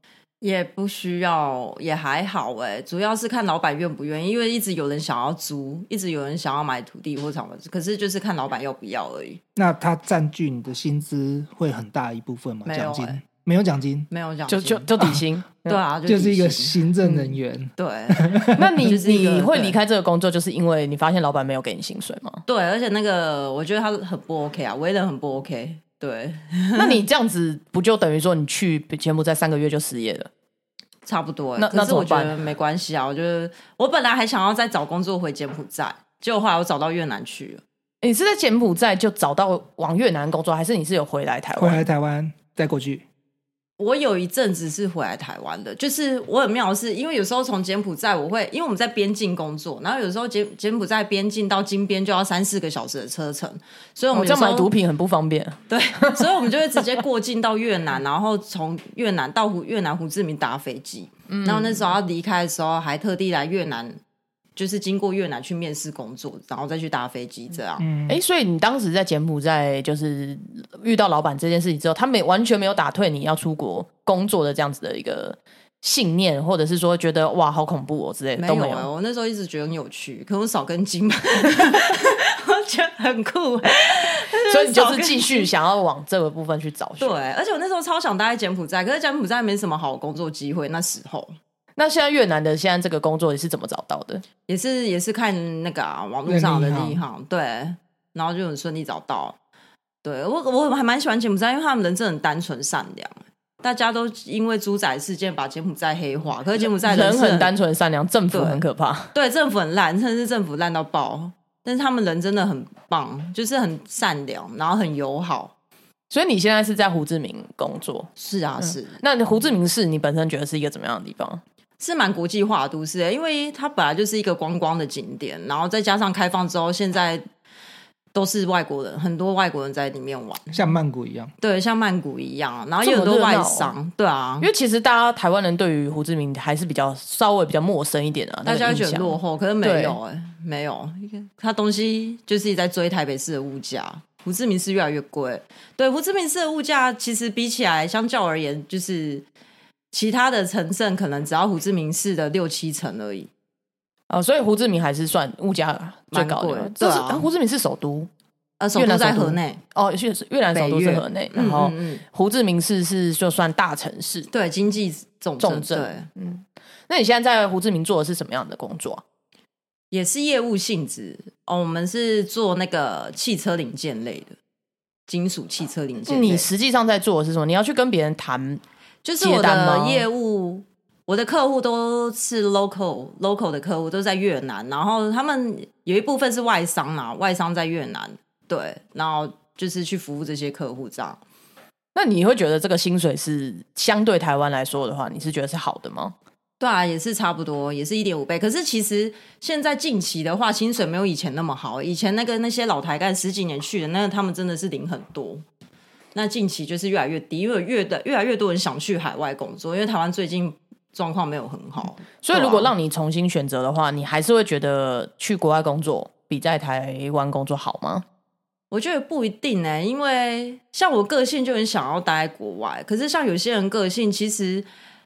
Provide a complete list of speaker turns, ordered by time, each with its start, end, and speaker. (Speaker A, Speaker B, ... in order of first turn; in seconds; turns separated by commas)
Speaker A: 0.4-9.4, Speaker B: 9.6-14.1, Speaker A: 12.6-13.2, Speaker A: 14.1-14.9, Speaker C: 14.5-15.8, Speaker A: 15.6-16.8, Speaker B: 16.1-18.6, Speaker A: 17.8-19.8, Speaker C: 18.6-22.4, Speaker A: 22.5-27.0, Speaker C: 26.8-30.3, Speaker A: 31.1-37.6, Speaker C: 31.6-32.3, Speaker C: 38.0-41.8, Speaker B: 41.5-43.0, Speaker A: 43.8-54.7, Speaker C: 54.1-56.8, Speaker A: 55.7-64.0, Speaker C: 61.3-61.9, Speaker A: 64.5-67.8, Speaker B: 67.8-68.2, Speaker C: 68.1-78.9, Speaker A: 78.4-85.5, Speaker C: 84.5-87.1, Speaker A: 87.0-91.3, Speaker C: 91.8-94.2, Speaker A: 94.5-99.3, Speaker B: 96.2-97.0, Speaker A: 100.0-107.5, Speaker C: 106.6-109.1, Speaker A: 108.3-108.6, Speaker A: 109.1-115.5, Speaker C: 116.1-118.1, Speaker A: 118.2-119.0, Speaker C: 118.6-121.4, Speaker A: 121.8-127.2, Speaker A: 128.1-130.6, Speaker B: 130.5-131.3, Speaker A: 131.4-134.5, Speaker C: 132.8-133.7, Speaker C: 134.4-140.0, Speaker A: 138.4-149.2, Speaker A: 149.9-153.3, Speaker C: 154.1-158.1, Speaker A: 156.1-157.3, Speaker A: 158.6-159.6, Speaker C: 158.7-164.3, Speaker A: 160.5-162.0, Speaker A: 164.3-166.1, Speaker C: 165.4-169.0, Speaker A: 169.9-174.3, Speaker A: 175.1-176.5, Speaker C: 176.1-178.6, Speaker A: 179.0-191.2, Speaker C: 179.2-180.1, Speaker C: 191.9-196.1, Speaker A: 196.6-205.4, Speaker A: 206.1-212.7, Speaker C: 212.2-218.0, Speaker A: 218.7-224.7